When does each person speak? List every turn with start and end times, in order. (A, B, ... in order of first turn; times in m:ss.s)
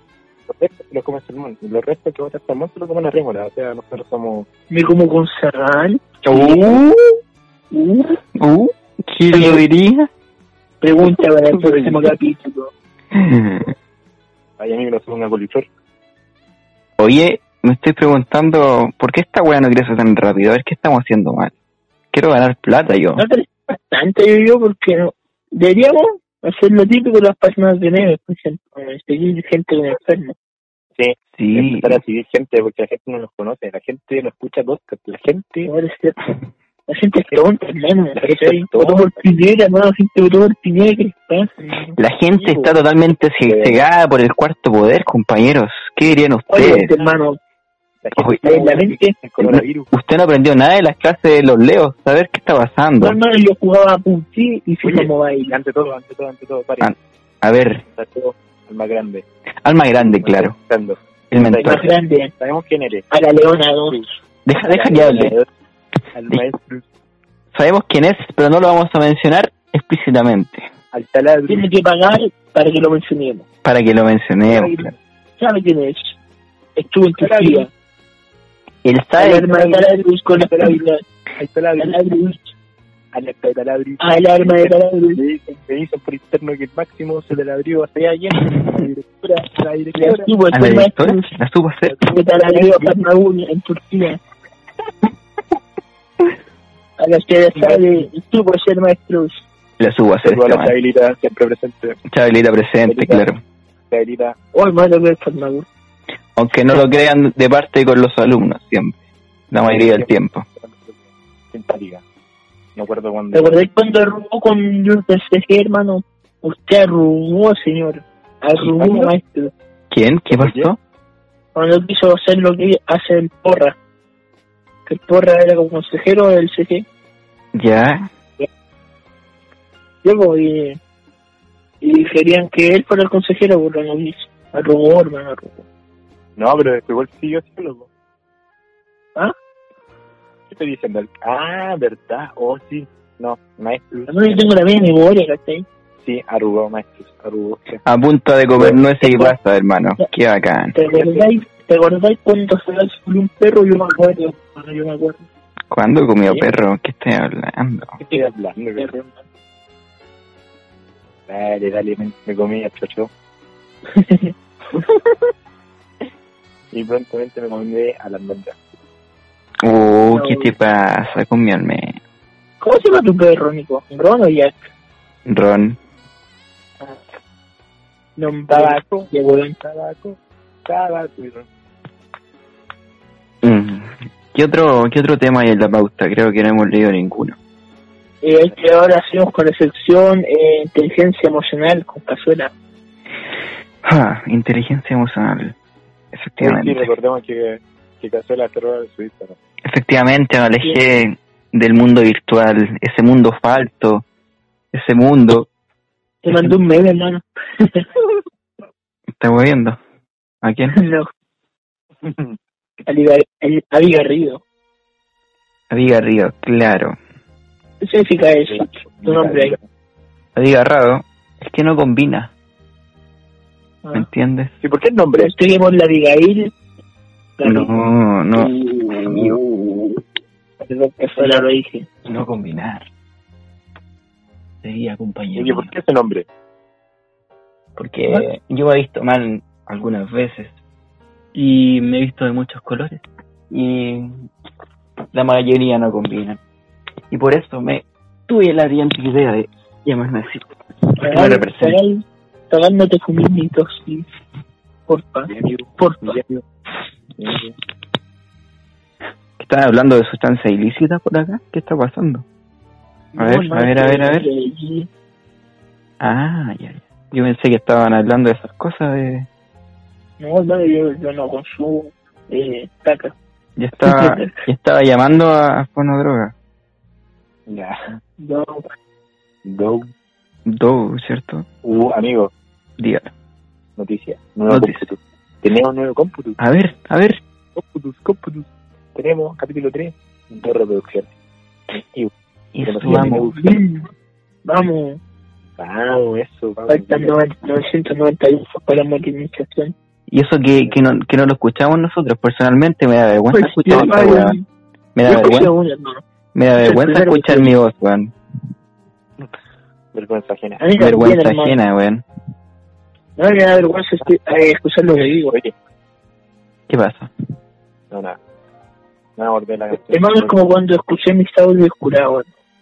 0:00.5-0:04.5 A
0:04.7-0:06.8 B
0:06.2-0:07.2 C
0:07.7-0:08.2 B
0:08.4-0:10.1 C
0:09.3-0:09.6 B
0:10.8-0:12.7 B
0:11.6-0:12.0 A
0:13.1-0:13.7 C
0:14.6-0:15.7 A
0:17.0-0:21.5 C
0:22.1-0:23.2 C
0:23.2-0:30.4 B
0:31.0-0:35.7 A
0:31.4-0:32.0 C
0:35.6-0:36.2 B
0:36.9-0:42.0 B
0:38.2-0:39.3 A
0:42.0-0:46.9 C
0:42.3-0:42.7 A
0:43.4-0:43.8 A
0:46.5-0:47.4 B
0:46.6-0:47.1 A
0:48.0-0:49.9 A
0:48.4-0:49.1 B
0:49.4-0:53.2 C
0:53.0-0:55.5 B
0:54.8-0:56.9 A
0:56.8-0:57.8 C
0:57.9-0:59.2 A
0:59.6-1:00.5 C
1:00.0-1:03.0 A
1:01.3-1:01.9 C
1:01.6-1:02.3 B
1:03.1-1:04.1 B
1:04.4-1:05.3 C
1:04.6-1:05.5 A
1:06.1-1:06.9 A
1:07.5-1:10.7 C
1:10.9-1:11.7 A
1:11.5-1:13.4 B
1:13.6-1:14.9 C
1:14.5-1:14.9 A
1:15.4-1:16.2 B
1:16.8-1:17.7 B
1:17.2-1:17.7 A
1:18.8-1:19.9 C
1:19.2-1:21.0 B
1:21.4-1:22.0 A
1:21.8-1:22.5 B
1:23.1-1:30.3 A
1:24.0-1:25.2 B
1:29.9-1:31.3 B
1:30.5-1:32.0 C
1:31.9-1:32.9 A
1:32.1-1:34.2 B
1:37.0-1:39.4 B
1:37.5-1:37.9 A
1:39.8-1:40.7 C
1:40.2-1:42.0 A
1:42.1-1:43.4 C
1:42.9-1:43.3 A
1:43.9-1:44.4 A
1:44.5-1:45.7 B
1:46.4-1:49.0 C
1:49.5-1:50.4 C
1:49.6-1:51.0 A
1:51.5-1:52.0 A
1:52.8-1:53.6 A
1:53.3-1:59.5 B
1:58.6-1:59.1 A
1:59.9-2:00.8 C
2:00.3-2:00.7 A
2:01.5-2:03.8 B
2:04.9-2:06.8 B
2:07.5-2:08.1 C
2:10.0-2:10.8 B
2:11.8-2:15.6 B
2:16.4-2:17.9 A
2:20.5-2:24.5 A
2:24.1-2:25.6 B
2:26.0-2:27.8 A
2:27.8-2:30.7 C
2:29.0-2:29.4 B
2:30.7-2:35.2 B
2:30.9-2:31.3 A
2:35.7-2:38.0 C
2:38.0-2:38.9 A
2:38.8-2:39.2 B
2:41.3-2:43.1 A
2:43.9-2:45.0 B
2:46.7-2:48.6 A
2:49.6-2:52.0 C
2:50.1-2:50.5 B
2:52.6-2:54.6 B
2:55.2-2:55.8 C
2:58.2-2:59.6 B
2:58.5-3:01.5 A
3:03.4-3:07.4 C
3:08.2-3:12.5 B
3:13.8-3:15.6 C
3:16.1-3:16.9 C
3:16.4-3:19.4 A
3:19.6-3:24.0 C
3:24.7-3:25.5 C
3:26.2-3:27.9 B
3:29.2-3:29.8 C
3:30.4-3:30.8 C
3:30.7-3:31.1 B
3:32.0-3:32.4 A
3:32.9-3:34.4 B
3:35.7-3:37.0 C
3:37.8-3:39.6 B
3:38.5-3:39.6 A
3:40.4-3:42.3 C
3:43.9-3:44.5 C
3:44.6-3:45.3 A
3:45.2-3:46.5 B
3:47.4-3:47.7 B
3:47.4-3:48.5 C
3:48.4-3:50.0 B
3:49.0-3:49.4 C
3:50.6-3:51.9 B
3:51.2-3:51.4 A
3:52.0-3:52.9 C
3:54.6-3:55.7 C
3:55.4-3:56.2 A
3:57.8-4:00.6 C
4:01.3-4:04.3 C
4:05.1-4:06.4 C
4:07.1-4:11.8 C
4:11.0-4:14.1 B
4:14.9-4:16.2 B
4:15.3-4:16.4 A
4:17.2-4:17.5 A
4:19.4-4:22.2 C
4:23.1-4:24.9 B
4:23.2-4:24.2 C
4:26.0-4:29.3 C
4:30.2-4:33.1 B
4:33.6-4:36.3 C
4:33.8-4:34.4 B
4:37.5-4:38.0 A
4:38.2-4:38.6 B
4:39.4-4:39.9 A
4:40.5-4:41.4 C
4:41.6-4:42.3 A
4:42.8-4:43.1 C
4:43.8-4:46.4 A
4:44.5-4:44.9 C
4:46.4-4:47.2 C
4:47.6-4:51.1 A
4:51.7-4:53.6 A
4:52.5-4:53.3 C
4:53.4-4:53.9 B
4:54.4-4:55.0 B
4:55.6-4:57.1 A
4:56.7-4:59.7 B
5:00.1-5:04.4 C
5:03.3-5:04.4 B
5:03.7-5:04.1 A
5:04.9-5:05.5 C
5:05.0-5:06.0 B
5:06.3-5:08.1 C
5:06.6-5:07.5 B
5:09.9-5:10.6 A
5:10.6-5:11.6 B
5:10.8-5:12.0 C
5:13.2-5:15.4 B
5:16.7-5:17.1 C
5:17.9-5:18.2 A
5:19.2-5:20.4 A
5:19.7-5:22.3 B